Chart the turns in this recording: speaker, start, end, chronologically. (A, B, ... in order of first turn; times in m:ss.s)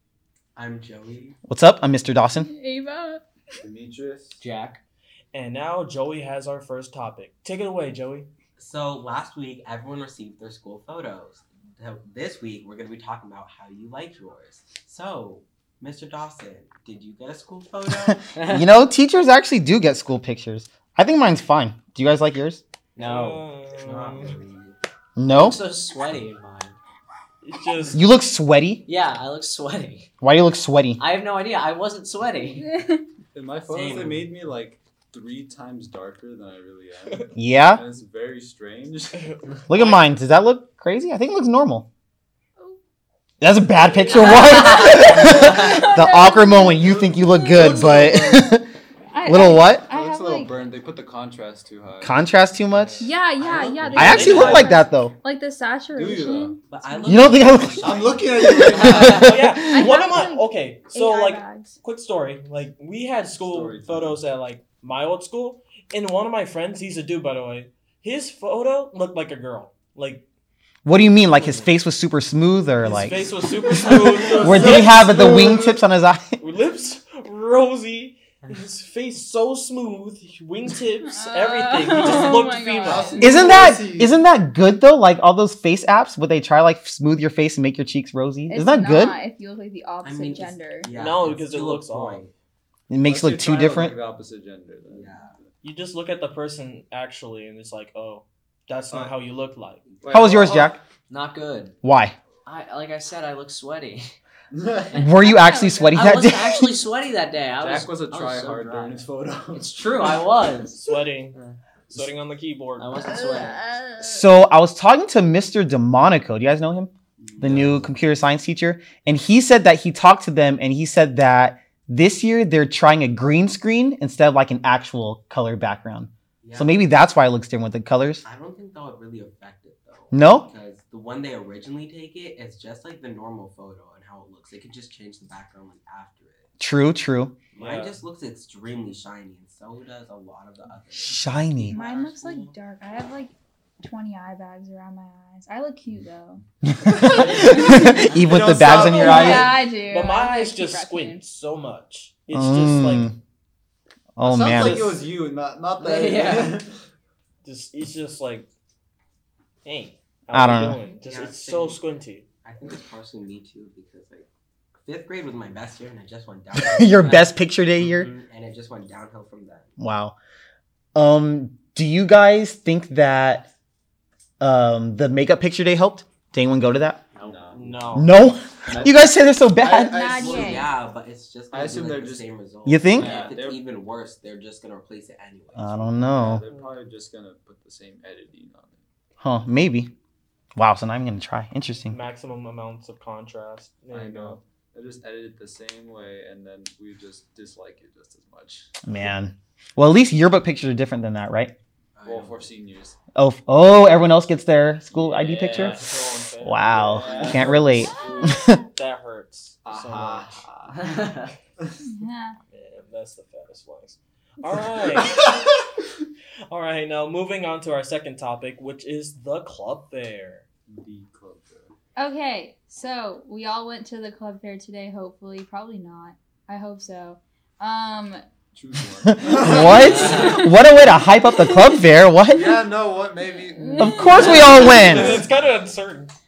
0:00.6-0:01.4 A
0:01.5-0:02.5 B
0:02.3-0:03.2 C
0:03.6-0:04.4 D
0:04.4-0:04.8 E
0:05.3-0:08.3 F
0:08.6-0:18.3 A
0:18.1-0:22.6 B
0:18.4-0:18.7 E
0:23.0-0:23.5 E
0:23.0-0:24.4 F
0:23.8-0:24.8 A
0:25.2-0:25.6 B
0:25.3-0:26.8 E
0:27.4-0:28.0 F
0:27.9-0:28.8 B
0:28.9-0:30.1 E
0:30.2-0:31.0 B
0:31.0-0:32.7 E
0:32.6-0:33.0 C
0:33.3-0:39.3 D
0:33.7-0:34.1 A
0:33.8-0:34.3 E
0:37.4-0:37.8 B
0:39.3-0:40.0 F
0:39.7-0:41.9 B
0:43.4-0:48.7 B
0:44.2-0:48.6 C
0:44.5-0:44.8 E
0:45.4-0:45.7 E
0:46.8-0:48.4 D
0:49.1-0:50.5 C
0:49.2-0:49.9 B
0:49.9-0:52.2 D
0:52.0-0:53.1 B
0:52.7-0:53.1 F
0:53.0-0:57.7 C
0:53.4-0:54.7 D
0:53.9-0:55.1 B
0:54.0-0:54.7 F
0:54.1-0:54.4 A
0:55.9-0:56.6 D
0:56.7-0:58.5 A
0:57.0-0:59.8 B
0:57.8-0:59.3 D
0:58.8-0:59.1 E
0:58.9-1:10.2 F
0:59.5-1:01.8 C
1:03.4-1:04.2 D
1:10.8-1:13.3 B
1:11.4-1:11.7 F
1:12.8-1:15.3 F
1:14.3-1:15.8 D
1:14.3-1:16.4 B
1:16.4-1:23.3 F
1:21.0-1:23.5 C
1:22.8-1:24.2 D
1:23.2-1:29.2 B
1:28.5-1:30.9 C
1:30.0-1:32.3 A
1:30.9-1:32.3 F
1:32.9-1:34.0 B
1:33.0-1:35.2 D
1:34.9-1:35.3 A
1:35.6-1:39.8 F
1:40.0-1:40.8 D
1:40.1-1:40.8 B
1:41.1-1:41.8 E
1:41.8-1:42.2 B
1:42.4-1:44.1 E
1:44.5-1:45.1 D
1:44.9-1:50.8 E
1:45.0-1:46.8 B
1:45.2-1:45.9 C
1:47.6-1:50.2 D
1:50.7-1:51.4 F
1:51.3-1:52.1 E
1:51.9-1:53.0 F
1:52.8-1:53.8 E
1:53.0-1:54.2 C
1:54.0-2:08.2 B
1:57.4-1:57.9 D
2:06.4-2:06.8 A
2:08.2-2:16.5 A
2:10.1-2:10.5 B
2:16.6-2:17.4 B
2:17.6-2:18.0 F
2:17.6-2:22.6 A
2:20.9-2:21.8 B
2:21.7-2:26.4 C
2:26.6-2:29.6 B
2:27.1-2:27.7 F
2:27.2-2:27.5 D
2:27.3-2:28.1 C
2:28.1-2:29.6 D
2:28.7-2:31.3 C
2:29.8-2:33.1 F
2:32.3-2:33.2 B
2:34.2-2:35.0 B
2:34.2-2:36.8 D
2:35.8-2:36.6 E
2:37.4-2:38.5 F
2:39.6-2:42.3 F
2:40.3-2:40.8 B
2:40.9-2:41.9 A
2:42.4-2:44.3 A
2:44.8-2:47.1 A
2:46.5-2:48.1 B
2:47.0-2:47.4 E
2:47.8-2:49.7 A
2:49.8-2:50.2 B
2:51.0-2:53.5 B
2:54.4-2:57.0 B
2:57.2-2:58.0 E
2:57.2-2:57.6 D
2:57.5-2:58.2 F
2:58.0-3:00.4 B
2:59.6-3:00.6 D
2:59.7-3:00.7 C
3:00.2-3:05.9 A
3:01.5-3:02.3 D
3:02.7-3:03.1 B
3:03.0-3:03.7 D
3:05.6-3:06.4 B
3:06.1-3:08.8 D
3:09.2-3:09.9 B
3:10.6-3:12.0 B
3:11.9-3:14.4 F
3:13.9-3:18.7 D
3:18.8-3:21.5 B
3:21.9-3:22.6 A
3:22.0-3:23.0 D
3:23.2-3:25.8 B
3:24.9-3:25.9 D
3:25.4-3:30.4 F
3:26.4-3:28.6 B
3:26.9-3:28.2 D
3:29.6-3:31.0 D
3:31.8-3:32.4 C
3:32.5-3:35.3 F
3:34.9-3:35.4 D
3:36.5-3:40.5 F
3:40.7-3:41.7 D
3:42.0-3:48.2 C
3:48.6-3:50.4 D
3:49.1-3:52.6 B
3:49.2-3:51.9 C
3:49.8-3:50.3 E
3:52.3-3:55.7 D
3:53.4-3:55.2 C
3:53.8-3:55.2 B
3:54.7-3:56.1 F